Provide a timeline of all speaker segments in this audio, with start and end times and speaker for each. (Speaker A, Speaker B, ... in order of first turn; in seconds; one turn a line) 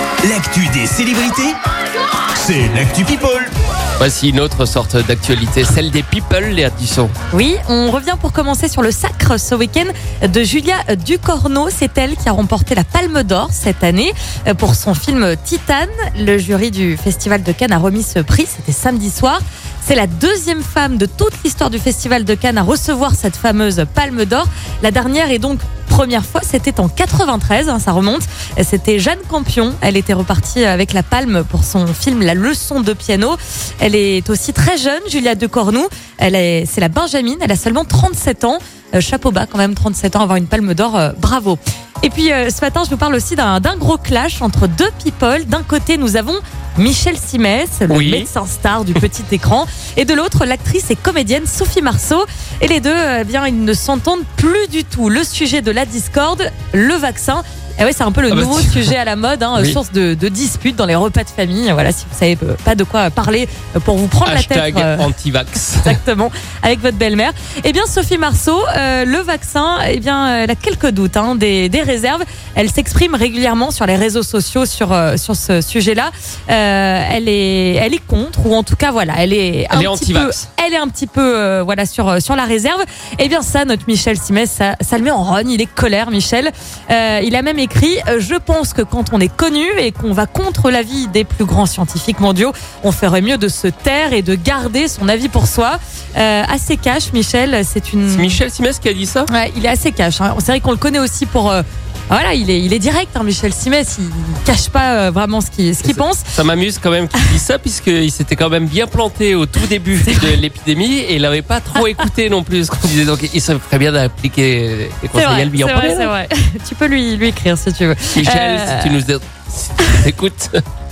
Speaker A: 0.2-1.6
Speaker A: 2.4-3.5
Speaker B: 4.0-7.1
Speaker C: 7.3-65.1
Speaker B: 47.9-48.3
Speaker B: 58.3-58.9
Speaker B: 64.2-66.0
Speaker C: 65.8-98.4
Speaker B: 79.7-80.5
Speaker B: 98.1-99.3
Speaker C: 99.3-106.3
Speaker B: 105.8-116.1
Speaker C: 110.1-110.4
Speaker C: 115.1-119.0
Speaker B: 118.1-120.6